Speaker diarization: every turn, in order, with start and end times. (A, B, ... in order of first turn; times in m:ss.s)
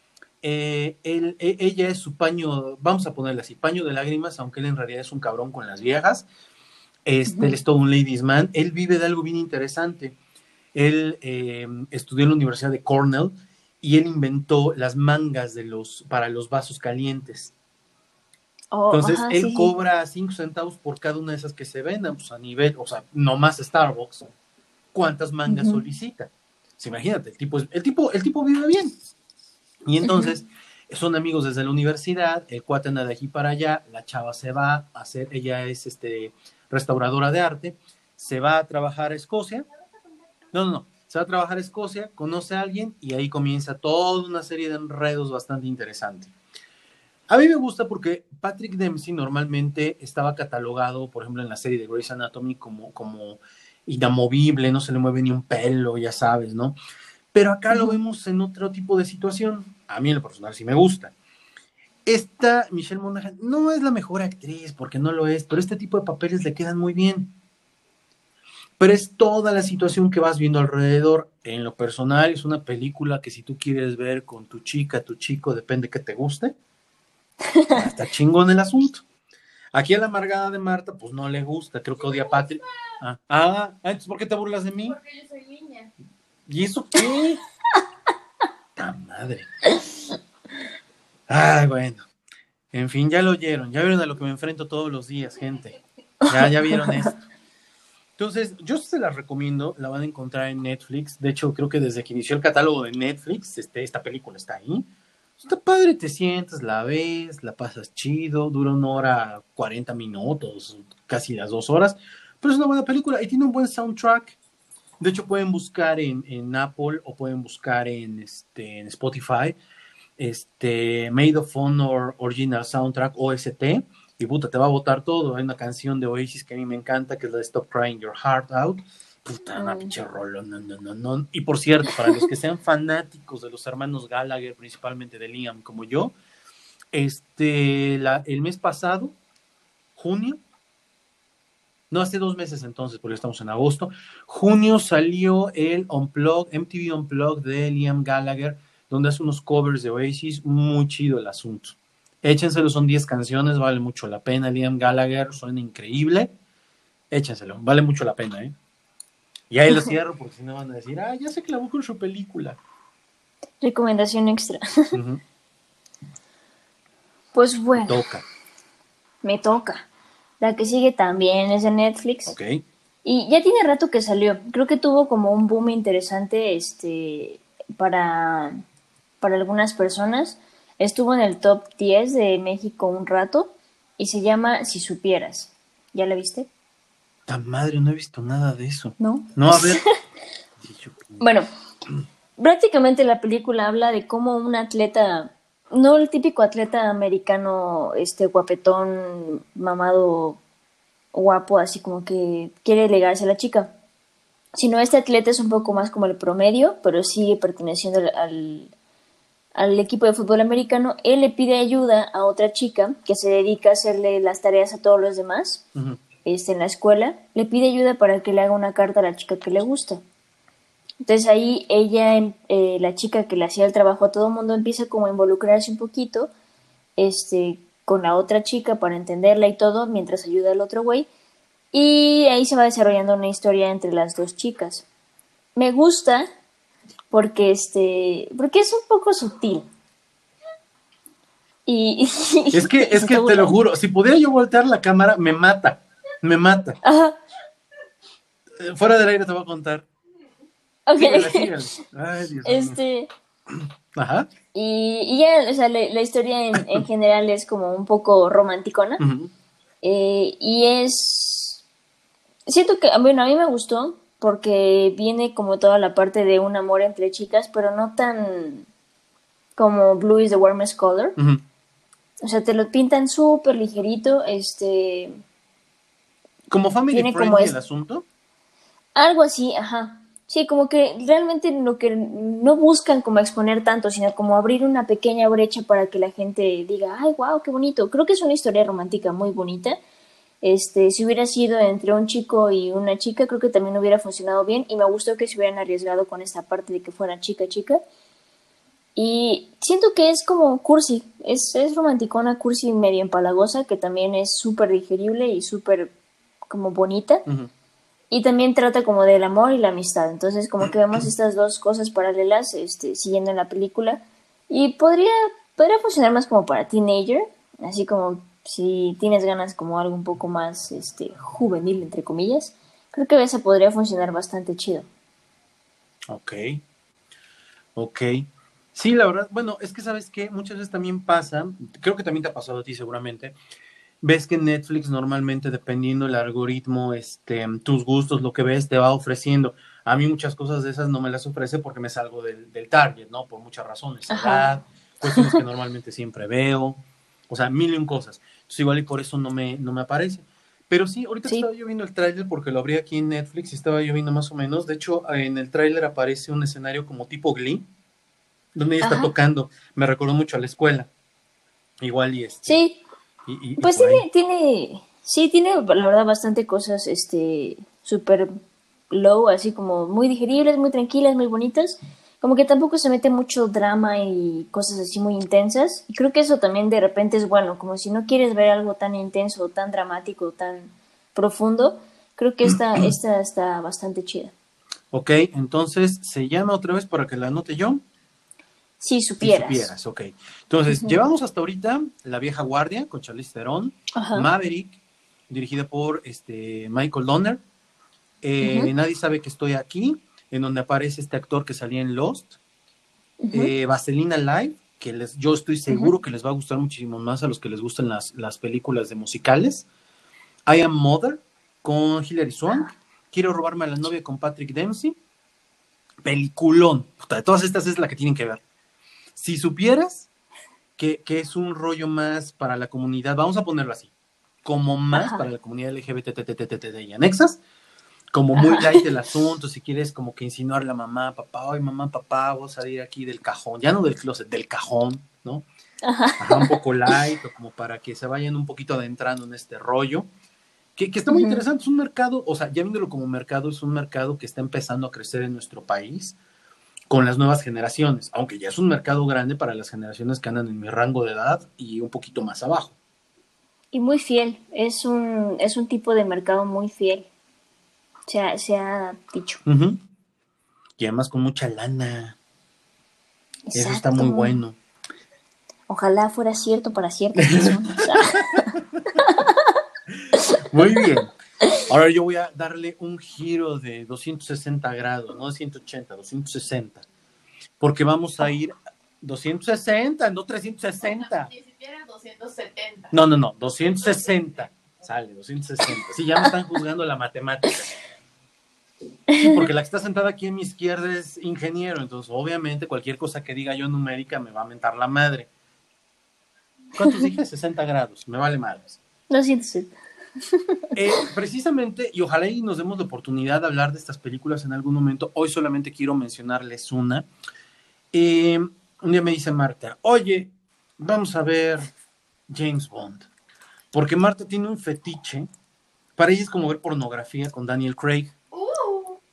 0:00.4-0:06.2 A
0:07.0-0:10.2 A
0:07.3-0:07.6 B
0:10.7-0:17.5 A
0:18.7-0:19.7 B
0:18.9-0:24.3 A
0:24.9-0:28.9 A
0:25.5-0:25.8 B
0:29.8-0:39.6 A
0:30.0-0:30.3 B
0:40.5-0:46.3 A
0:47.3-0:56.8 A
0:57.3-1:01.1 A
0:57.7-0:58.0 B
1:02.0-1:07.3 A
1:08.8-1:16.5 A
1:17.5-1:17.8 B
1:17.7-1:19.0 A
1:19.7-1:25.0 A
1:24.9-1:25.9 C
1:26.5-1:27.4 A
1:28.8-1:29.5 A
1:31.3-1:32.0 A
1:32.7-1:37.1 A
1:36.4-1:37.1 B
1:38.2-1:44.9 A
1:45.4-1:54.4 A
1:55.0-1:59.5 A
2:00.2-2:16.1 A
2:09.6-2:09.9 B
2:16.9-2:19.2 A
2:20.0-2:20.4 A
2:21.9-2:36.3 A
2:37.1-2:38.5 A
2:39.5-2:42.6 A
2:43.6-2:44.9 B
2:44.9-2:45.2 A
2:47.3-2:48.0 B
2:47.8-2:48.2 A
2:49.2-2:49.9 B
2:50.4-2:52.3 B
2:52.2-2:52.6 A
2:53.0-2:58.6 B
2:59.2-3:06.5 B
3:07.3-3:09.8 A
3:09.0-3:09.9 B
3:10.6-3:11.2 A
3:11.2-3:11.4 B
3:12.4-3:20.4 B
3:21.1-3:23.7 B
3:24.5-3:28.7 B
3:29.5-3:35.6 B
3:35.7-3:36.0 A
3:36.2-3:40.0 B
3:41.0-3:46.3 B
3:47.0-3:51.1 B
3:51.7-3:54.8 B
3:55.6-3:56.3 B
3:57.1-3:59.7 B
4:01.7-4:03.6 B
4:02.5-4:06.8 A
4:06.8-4:07.2 B
4:08.6-4:09.9 A
4:10.9-4:11.5 B
4:11.0-4:12.8 A
4:12.4-4:13.1 B
4:14.0-4:14.3 A
4:14.5-4:19.0 B
4:19.0-4:19.3 A
4:19.8-4:21.6 B
4:22.5-4:28.7 B
4:29.6-4:31.2 B
4:31.2-4:31.4 A
4:32.2-4:35.2 B
4:36.5-4:38.0 A
4:36.9-4:37.5 B
4:38.9-4:49.8 B
4:50.4-4:57.8 B
4:59.0-5:05.9 B
5:06.5-5:07.2 B
5:08.1-5:24.9 B
5:26.1-5:26.6 A
5:27.8-5:33.3 A
5:34.0-5:57.6 A
5:44.1-5:44.5 B
5:45.0-5:45.4 B
5:58.5-6:00.9 A
5:58.8-5:59.1 B
6:01.8-6:02.6 A
6:02.4-6:02.8 B
6:03.3-6:04.0 A
6:03.6-6:08.3 B
6:08.9-6:24.3 B
6:24.9-6:27.8 A
6:28.8-6:29.7 B
6:29.2-6:37.4 A
6:30.7-6:31.0 B
6:33.9-6:34.3 B
6:38.2-6:42.4 A
6:38.4-6:38.7 B
6:43.2-6:43.5 B
6:43.3-6:49.6 A
6:50.5-6:55.0 A
6:56.0-6:58.4 A
6:59.2-7:00.1 A
7:00.8-7:03.9 A
7:04.4-7:07.4 A
7:04.9-7:05.2 B
7:08.1-7:15.4 A
7:08.4-7:08.9 B
7:15.8-7:16.9 B
7:16.2-7:20.1 A
7:20.8-7:26.2 A
7:21.1-7:21.4 B
7:26.9-7:32.8 A
7:33.7-7:37.1 B
7:38.1-7:39.4 B
7:39.4-7:39.8 A
7:40.8-7:42.2 A
7:43.5-7:44.4 B
7:43.5-7:44.6 A
7:45.7-7:48.5 B
7:47.2-7:48.9 A
7:49.0-7:49.5 B
7:49.9-7:51.1 A
7:51.6-7:56.8 A
7:57.6-8:01.3 A
8:00.8-8:02.9 C
8:02.9-8:07.7 A
8:09.1-8:09.4 B
8:09.1-8:15.3 A
8:16.7-8:18.8 A
8:19.1-8:19.7 B
8:20.3-8:20.7 B
8:20.7-8:27.1 A
8:27.9-8:31.7 A
8:32.3-8:33.1 A
8:33.7-8:35.3 A
8:36.0-8:38.1 A
8:38.3-8:39.0 C